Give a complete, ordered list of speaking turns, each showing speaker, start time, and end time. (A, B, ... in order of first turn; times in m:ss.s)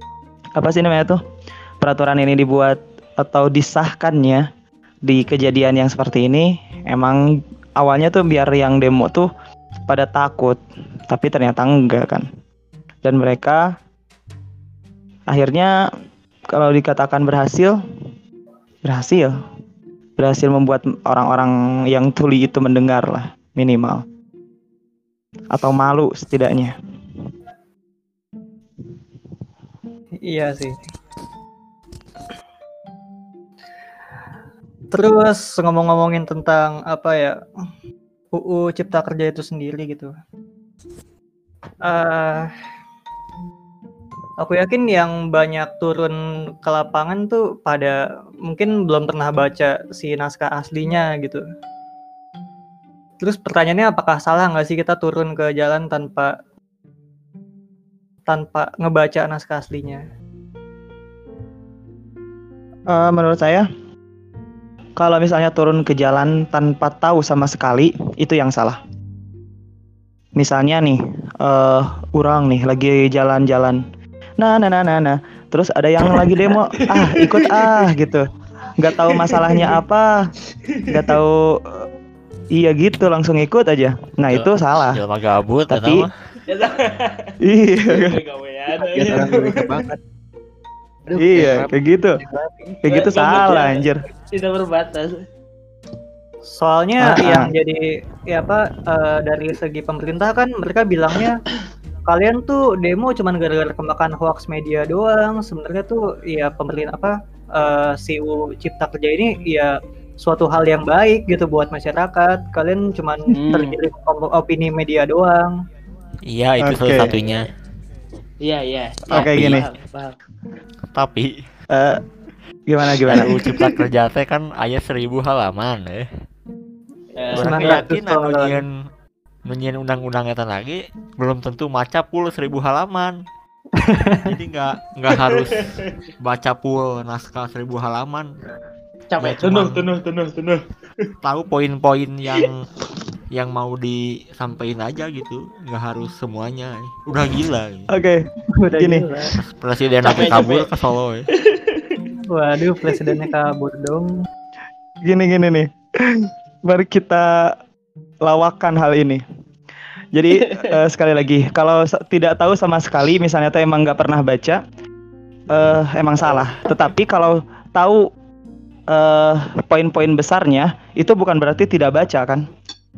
0:00.6-0:01.2 A
0:01.8-0:04.5 A
0:05.0-0:09.3 A
0:09.8-0:12.3 A
0:13.0-0:13.7 A
0:15.3-0:15.7 A
0:16.5-0:17.8 A
0:18.8-0:19.3 A
0:20.2-0:24.0 A
0:25.5-0:26.7 A
0:30.2-0:30.8 B
0:34.9-0:37.4 B
0:38.3-0:40.1 B
0:41.8-0:42.5 B
0:44.4-0:51.4 B
0:53.2-0:56.3 B
0:58.3-1:00.0 B
1:02.9-1:03.7 A
1:05.0-1:08.8 A
1:10.4-1:13.8 A
1:14.4-1:18.3 A
1:16.8-1:17.7 C
1:18.8-1:20.3 A
1:19.0-1:19.7 C
1:20.9-1:21.9 A
1:22.5-1:25.0 A
1:24.3-1:26.1 D
1:25.7-1:26.1 A
1:26.5-1:29.9 C
1:27.4-1:28.2 A
1:28.8-1:30.0 E
1:31.1-1:31.8 E
1:31.2-1:32.2 A
1:32.8-1:34.1 A
1:32.8-1:35.2 C
1:36.6-1:41.4 B
1:37.0-1:37.5 A
1:42.1-1:55.6 B
1:53.3-1:53.8 C
1:56.3-1:57.4 D
1:56.6-1:57.2 A
1:58.4-2:00.2 C
1:59.1-1:59.6 A
1:59.2-1:59.6 D
2:00.9-2:01.4 D
2:01.7-2:02.0 A
2:02.7-2:03.5 A
2:03.0-2:06.1 D
2:07.2-2:07.8 C
2:07.3-2:08.6 B
2:07.4-2:08.7 D
2:09.5-2:13.2 D
2:13.8-2:14.3 B
2:14.2-2:18.3 D
2:15.2-2:15.9 C
2:19.1-2:21.1 C
2:19.2-2:19.9 D
2:21.2-2:22.6 D
2:23.3-2:27.9 D
2:27.9-2:28.2 A
2:28.6-2:29.4 B
2:28.7-2:29.0 A
2:29.4-2:31.3 D
2:30.0-2:30.7 C
2:31.4-2:32.0 C
2:32.3-2:34.2 B
2:35.0-2:37.6 A
2:38.2-2:39.2 A
2:40.1-2:44.6 A
2:40.4-2:40.7 C
2:45.5-2:48.1 A
2:46.3-2:46.5 C
2:48.9-2:52.4 A